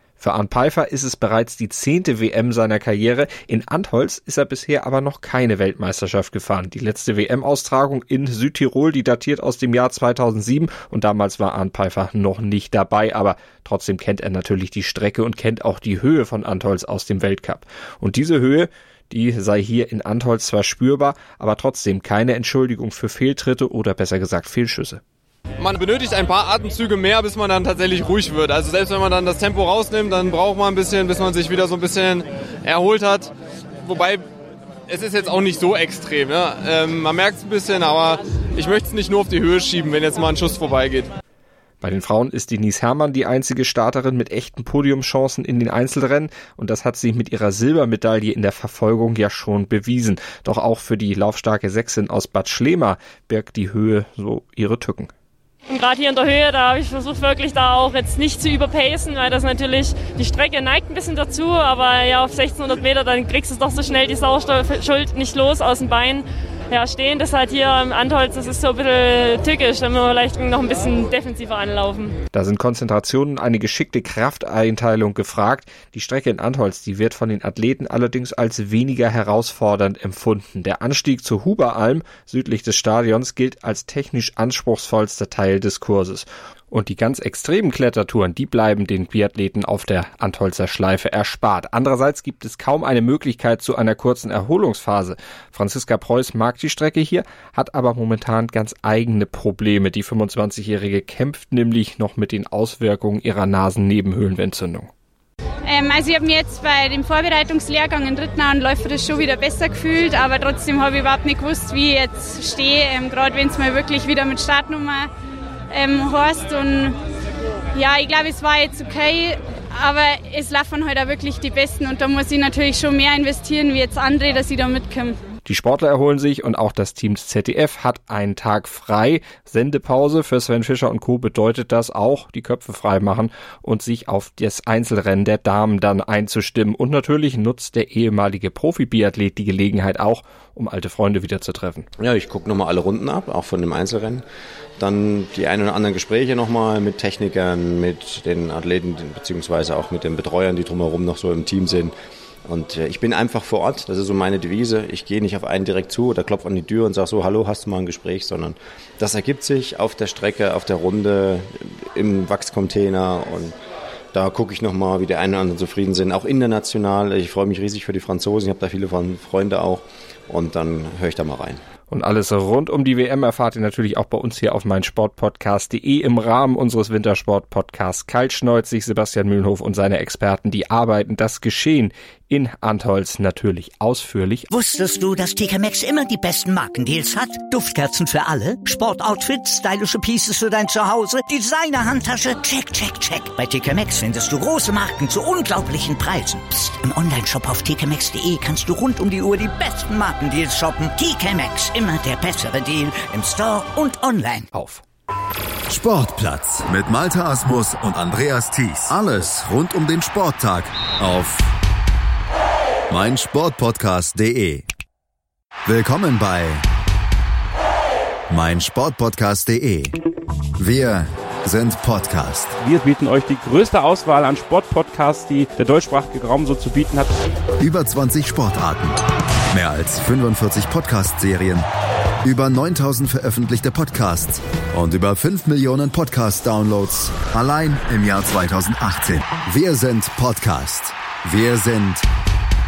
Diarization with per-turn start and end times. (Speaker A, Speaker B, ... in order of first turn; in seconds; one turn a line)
Speaker A: 0.2-25.0
Speaker B: 25.6-33.3
Speaker B: 33.8-34.2
Speaker B: 34.9-41.1
Speaker A: 41.8-55.1
Speaker C: 55.7-72.1
Speaker A: 72.3-104.9
Speaker D: 105.6-115.1
Speaker D: 115.7-117.0
Speaker D: 117.7-125.2
Speaker A: 125.4-141.9
Speaker E: 142.0-144.2
Speaker E: 144.8-151.9
Speaker E: 152.4-163.5
Speaker E: 164.1-171.6
Speaker A: 171.9-184.5
Speaker F: 184.5-204.5
Speaker A: 204.5-204.8
Speaker G: 205.7-211.5
Speaker G: 212.9-214.6
Speaker G: 215.7-216.6
Speaker G: 218.3-219.9
Speaker G: 220.6-222.6
Speaker H: 222.6-227.1
Speaker G: 227.6-229.0
Speaker G: 229.5-231.6
Speaker G: 232.2-242.0